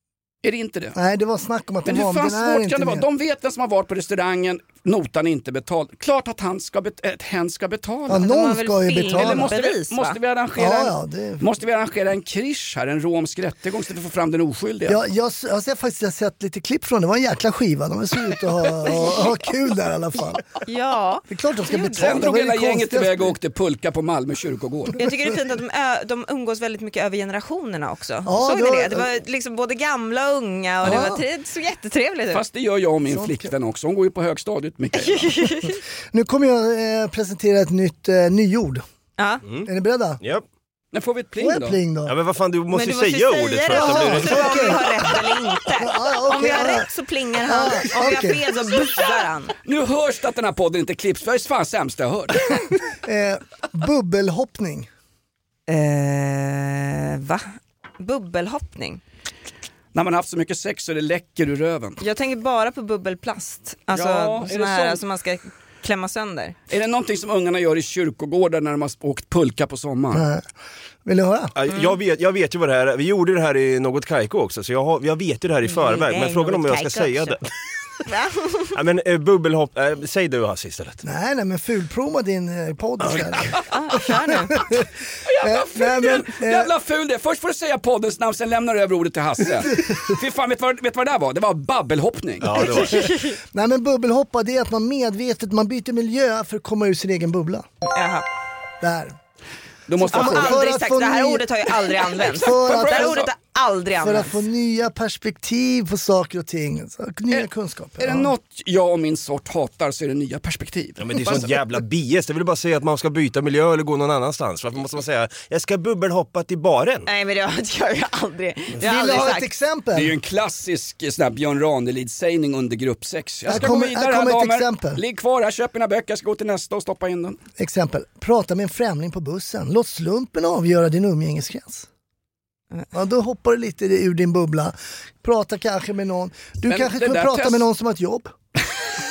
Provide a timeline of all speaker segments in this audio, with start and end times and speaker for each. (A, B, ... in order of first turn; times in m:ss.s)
0:00.4-0:01.0 A
0:00.9-0:03.0 B
0:01.8-0:08.3 A
0:08.1-0:09.5 B
0:08.2-0:10.2 C
0:09.1-0:15.0 A
0:10.6-0:11.4 B
0:14.9-0:20.4 B
0:20.6-0:22.2 C
0:21.3-0:23.4 B
0:22.0-0:25.1 A
0:25.0-0:32.4 C
0:28.2-0:29.1 B
0:30.8-0:31.1 A
0:30.8-0:31.2 B
0:32.3-0:35.7 A
0:33.1-0:33.5 B
0:35.1-0:35.7 C
0:36.1-0:38.8 B
0:39.2-0:39.4 C
0:39.6-0:40.2 B
0:40.9-0:41.8 A
0:41.4-0:42.1 B
0:42.1-0:44.8 D
0:42.7-0:49.5 C
0:43.7-0:46.9 B
0:47.4-0:48.4 B
0:49.6-0:52.5 A
0:52.9-0:54.9 B
0:55.7-0:59.0 C
0:59.9-1:02.0 A
1:02.0-1:06.6 C
1:03.9-1:05.0 A
1:06.7-1:10.2 A
1:10.1-1:10.5 B
1:11.0-1:11.5 B
1:11.6-1:17.4 D
1:15.6-1:17.4 C
1:18.1-1:18.7 C
1:18.7-1:21.0 D
1:21.0-1:24.9 B
1:23.7-1:24.6 C
1:25.2-1:32.9 A
1:25.4-1:26.7 B
1:32.4-1:33.1 D
1:33.0-1:37.6 B
1:37.9-1:38.2 C
1:38.8-1:39.2 B
1:39.9-1:40.6 A
1:40.0-1:43.3 B
1:40.1-1:44.4 C
1:42.5-1:43.3 A
1:44.0-1:48.3 B
1:48.0-1:51.6 A
1:51.0-1:57.1 D
1:57.1-1:59.5 C
1:58.8-2:00.2 B
1:59.9-2:07.4 A
2:03.4-2:05.0 B
2:07.6-2:11.9 B
2:12.9-2:18.3 B
2:16.7-2:17.6 A